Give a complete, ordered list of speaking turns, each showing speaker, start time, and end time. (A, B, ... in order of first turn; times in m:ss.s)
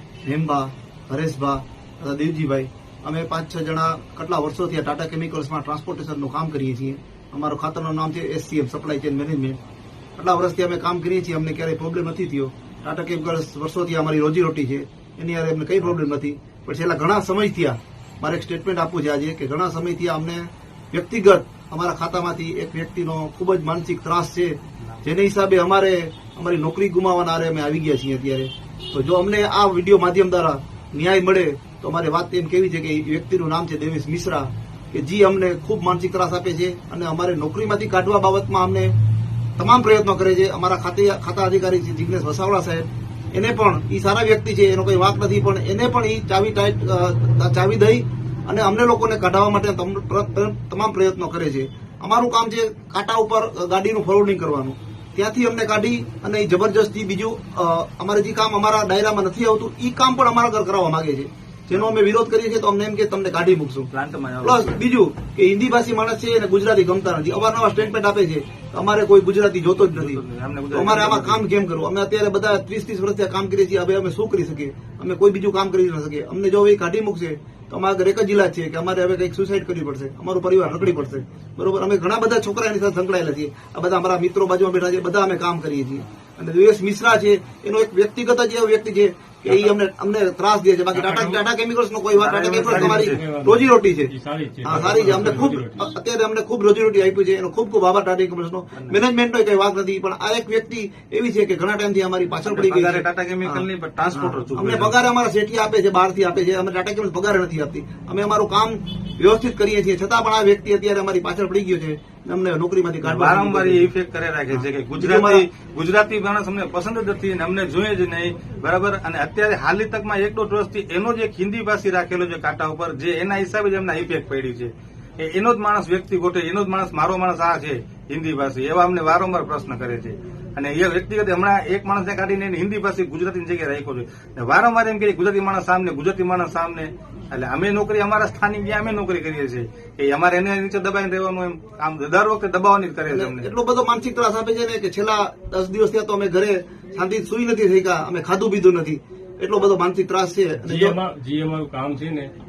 0:00.2-0:09.6 A
0:10.2-0:38.9 A
0:39.6-1:03.9 A
1:03.9-1:04.8 B
1:04.4-1:34.1 A
1:09.8-1:11.4 B
1:30.9-1:31.4 C
1:32.2-1:33.2 B
1:32.4-1:35.9 C
1:34.6-1:53.9 A
1:42.4-1:44.9 B
1:53.0-2:23.5 B
1:54.5-1:55.5 A
2:23.1-2:31.0 A
2:30.6-2:32.3 C